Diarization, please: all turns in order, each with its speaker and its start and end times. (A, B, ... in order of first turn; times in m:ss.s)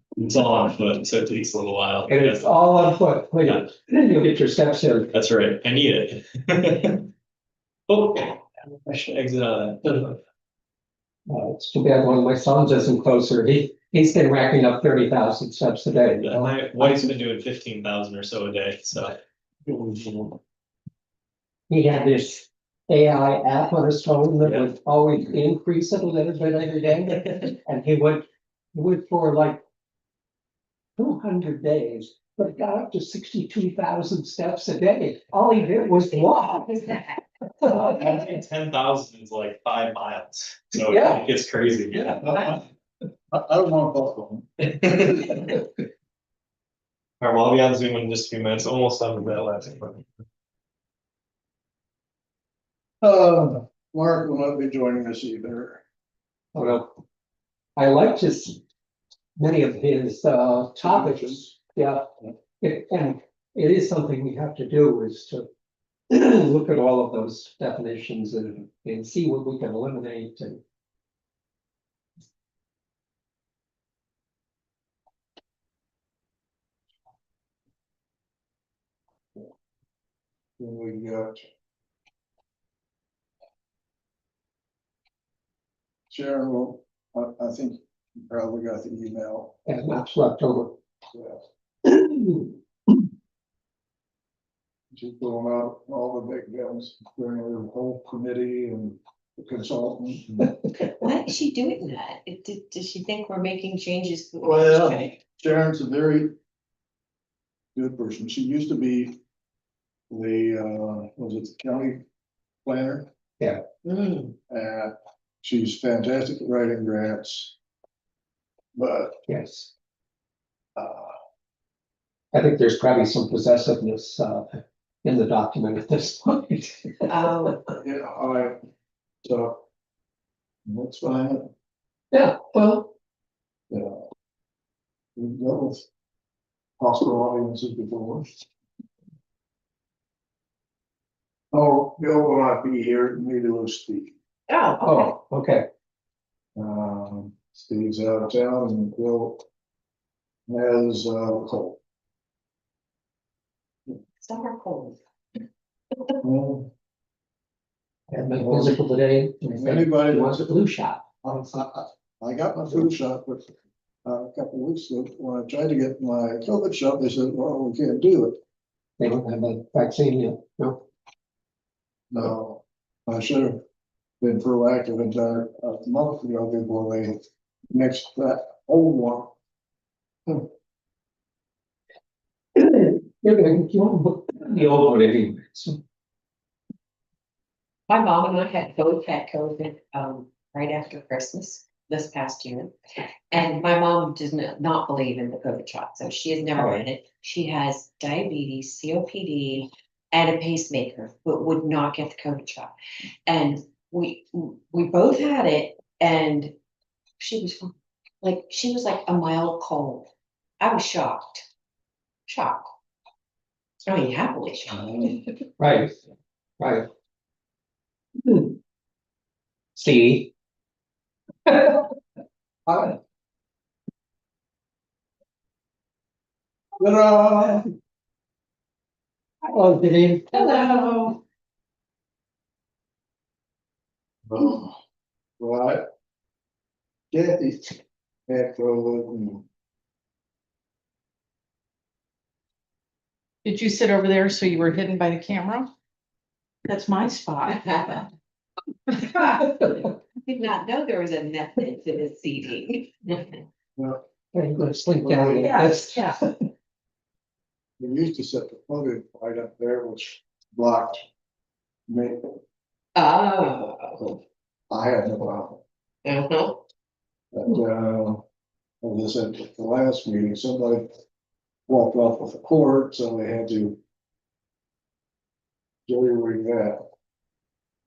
0:00.2-0:02.6 A
0:02.1-0:05.1 B
0:05.1-0:07.1 A
0:07.9-0:10.2 A
0:11.3-0:16.5 B
0:16.2-0:19.2 A
0:21.7-0:29.6 B
0:24.4-0:24.7 A
0:31.0-0:37.0 B
0:37.6-0:38.0 B
0:37.7-0:42.2 A
0:40.9-0:41.2 B
0:42.0-0:42.6 C
0:43.3-0:44.8 C
0:44.9-0:45.4 A
0:47.2-0:50.1 A
0:53.0-0:55.8 C
0:56.5-0:56.9 B
0:57.8-0:58.6 B
0:59.4-1:02.1 B
1:00.9-1:01.3 C
1:02.6-1:05.5 B
1:06.1-1:10.6 B
1:20.6-1:21.4 C
1:26.1-1:29.6 C
1:29.7-1:30.8 B
1:31.1-1:31.4 C
1:31.9-1:32.6 B
1:34.9-1:40.5 C
1:41.0-1:45.2 D
1:44.4-1:46.4 C
1:47.8-1:49.2 C
1:50.1-1:52.0 C
1:52.6-1:53.1 C
1:53.8-1:54.3 D
1:54.5-1:57.6 C
1:58.8-1:59.2 C
1:59.3-1:59.7 B
2:00.8-2:01.2 C
2:02.3-2:07.6 B
2:07.1-2:07.6 D
2:07.8-2:08.6 C
2:09.2-2:09.6 C
2:10.7-2:11.5 C
2:12.1-2:12.9 B
2:13.7-2:14.0 C
2:15.2-2:15.9 C
2:16.8-2:18.3 C
2:21.5-2:24.1 C
2:24.5-2:25.2 D
2:24.8-2:25.7 B
2:26.6-2:29.4 C
2:30.5-2:31.8 C
2:34.2-2:35.0 D
2:36.2-2:36.7 C
2:38.1-2:41.0 B
2:38.3-2:38.8 C
2:39.4-2:40.6 C
2:41.2-2:43.5 C
2:44.0-2:48.4 C
2:49.0-2:50.8 B
2:52.1-2:53.6 C
2:54.2-2:57.2 C
2:57.7-2:59.3 C
3:02.6-3:05.8 B
3:07.9-3:12.7 D
3:13.3-3:22.7 D
3:16.6-3:16.8 B
3:23.3-3:26.5 D
3:27.2-3:30.1 D
3:30.6-3:31.4 D
3:32.3-3:32.7 D
3:33.9-3:35.2 D
3:34.8-3:35.2 C
3:35.6-3:36.0 B
3:36.6-3:36.9 B
3:38.2-3:38.6 B
3:39.8-3:40.3 B
3:41.5-3:41.9 B
3:42.7-3:43.0 B
3:46.8-3:47.7 C
3:49.4-3:50.7 B
3:50.4-3:51.2 E
3:54.3-3:54.7 C
3:55.4-3:55.9 C
3:57.1-3:59.4 C
4:03.4-4:05.7 E
4:06.7-4:07.6 E
4:07.5-4:08.0 D
4:09.2-4:13.4 D
4:13.8-4:14.0 C
4:14.3-4:16.2 B
4:15.0-4:15.6 C
4:15.4-4:16.2 E
4:17.8-4:21.0 C
4:21.9-4:22.4 C
4:23.0-4:24.2 D
4:24.7-4:25.6 C
4:26.0-4:26.6 D
4:27.3-4:28.2 C
4:28.8-4:30.9 C
4:31.7-4:33.8 C
4:35.9-4:36.8 C